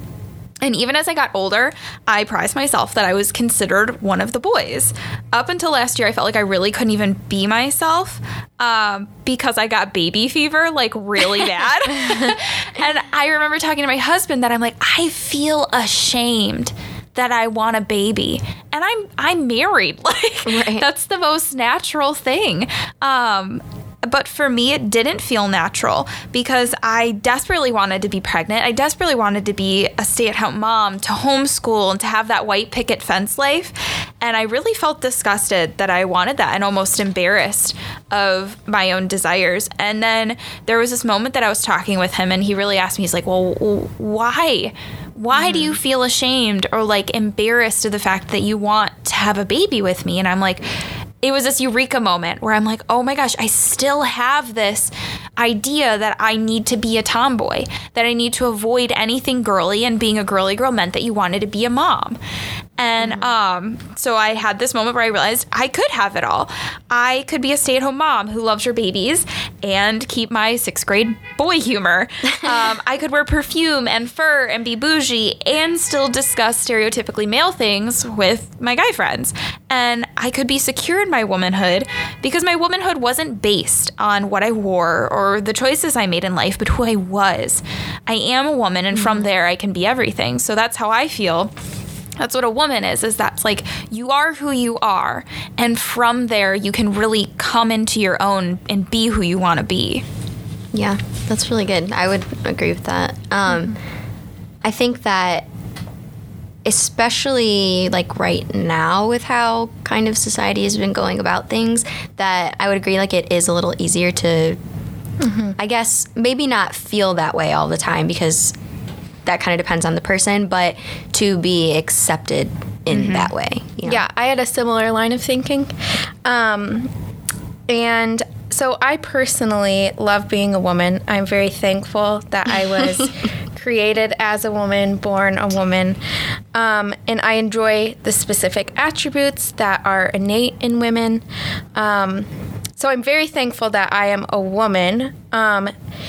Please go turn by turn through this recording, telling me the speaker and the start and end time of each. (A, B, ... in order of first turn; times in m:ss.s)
0:00.6-0:50.6 A
0:20.4-0:20.9 B
0:51.2-1:02.2 A
1:02.8-1:31.5 A
1:32.2-1:40.0 A
1:40.7-1:43.8 B
1:44.6-1:45.4 B
1:46.6-1:54.6 B
1:55.2-1:55.6 C
1:55.6-1:58.5 B
1:59.2-2:04.0 B
2:02.9-2:03.3 A
2:03.8-2:05.7 C
2:06.2-2:06.9 C
2:07.7-2:16.0 C
2:16.5-2:21.2 C
2:21.7-2:25.7 C